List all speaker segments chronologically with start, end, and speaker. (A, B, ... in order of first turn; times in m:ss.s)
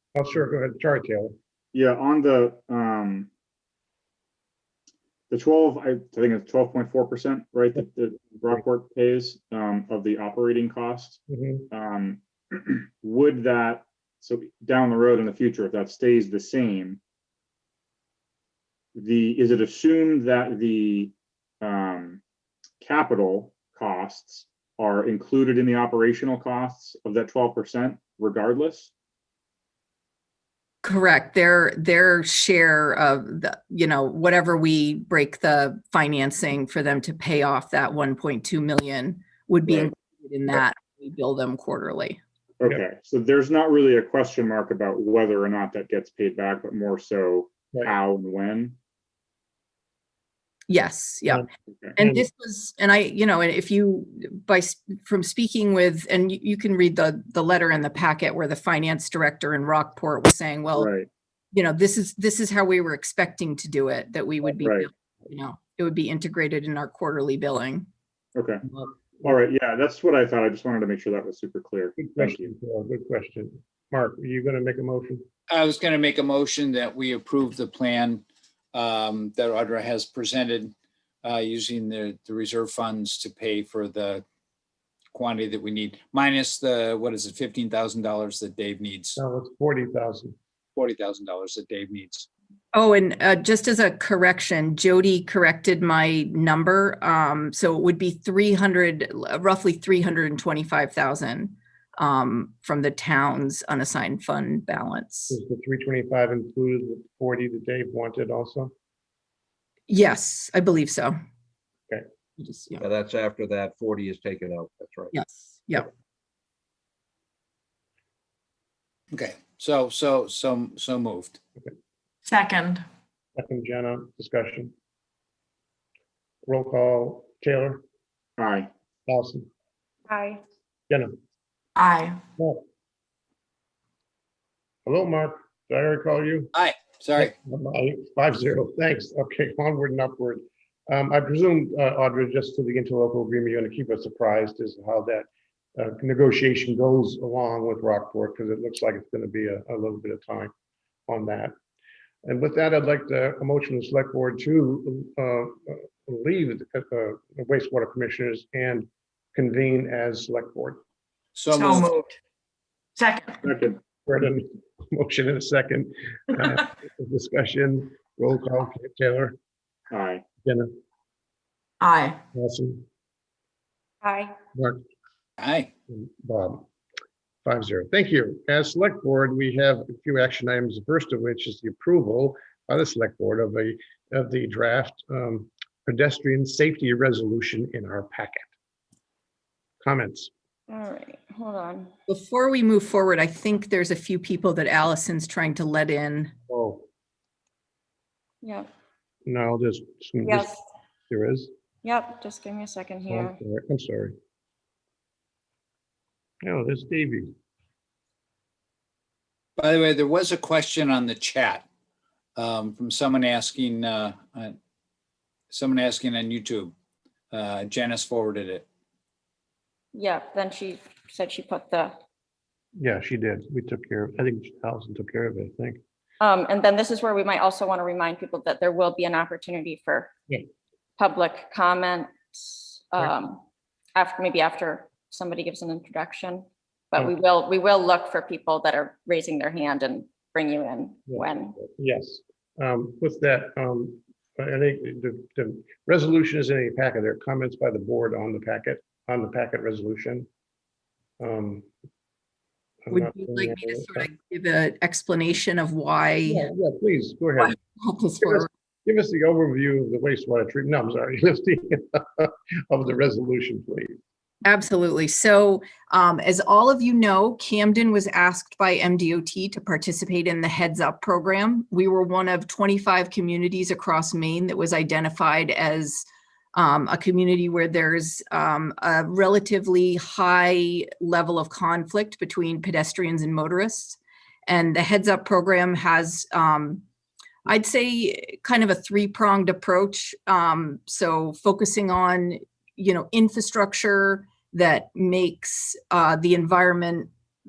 0:00.1-0:01.3 A
0:01.7-0:03.3 B
0:05.3-0:17.0 B
0:11.3-0:11.7 A
0:18.9-0:22.2 B
0:22.8-0:28.9 B
0:30.8-0:42.2 C
0:39.7-0:39.9 B
0:42.6-0:48.8 B
0:50.7-1:00.9 C
0:51.7-0:51.9 B
0:52.0-0:52.3 A
1:00.7-1:01.1 B
1:01.5-1:07.9 C
1:04.6-1:04.9 B
1:08.3-1:08.6 B
1:09.2-1:12.5 B
1:12.0-1:15.2 A
1:15.5-1:20.7 D
1:21.2-1:24.2 D
1:25.1-1:29.2 D
1:29.2-1:30.3 A
1:30.8-1:32.3 D
1:32.7-1:45.4 C
1:45.3-1:48.7 A
1:49.9-1:51.1 C
1:52.4-1:52.8 C
1:52.8-1:55.1 E
1:55.1-1:55.9 C
1:59.1-2:01.4 D
2:02.2-2:02.8 F
2:03.4-2:04.7 A
2:06.4-2:07.8 A
2:08.4-2:08.7 B
2:09.1-2:09.5 A
2:10.1-2:10.4 G
2:11.8-2:12.2 F
2:12.4-2:12.6 A
2:14.8-2:16.5 A
2:16.5-2:17.3 D
2:17.2-2:30.5 A
2:31.1-2:31.5 A
2:32.2-2:40.8 A
2:41.3-2:41.9 D
2:41.5-2:42.2 F
2:43.0-2:43.4 F
2:43.4-2:43.8 B
2:44.0-2:49.3 A
2:49.9-2:50.2 B
2:50.4-2:50.7 A
2:51.8-2:52.2 F
2:52.3-2:52.8 A
2:54.0-2:54.4 G
2:54.5-2:54.8 A
2:55.4-2:55.7 D
2:55.9-2:56.6 A
2:57.4-3:08.5 A
3:09.8-3:10.3 A
3:10.7-3:11.9 G
3:12.1-3:16.3 C
3:16.5-3:16.8 A
3:18.4-3:18.7 G
3:19.2-3:20.5 A
3:20.2-3:20.6 G
3:21.1-3:21.5 A
3:21.8-3:23.4 G
3:23.1-3:24.1 A
3:26.4-3:27.3 A
3:29.6-3:31.6 D
3:32.4-3:34.6 D
3:35.5-3:36.7 D
3:37.3-3:38.6 D
3:39.9-3:41.9 G
3:42.8-3:45.8 A
3:46.2-3:50.1 G
3:51.0-3:53.4 G
3:53.9-4:01.6 G
4:01.1-4:10.3 A
4:11.2-4:11.7 A
4:12.9-4:14.1 A
4:12.9-4:16.5 C
4:16.2-4:17.6 A
4:17.4-4:18.5 C
4:18.2-4:24.0 A
4:24.4-4:46.8 C
4:47.4-4:57.1 C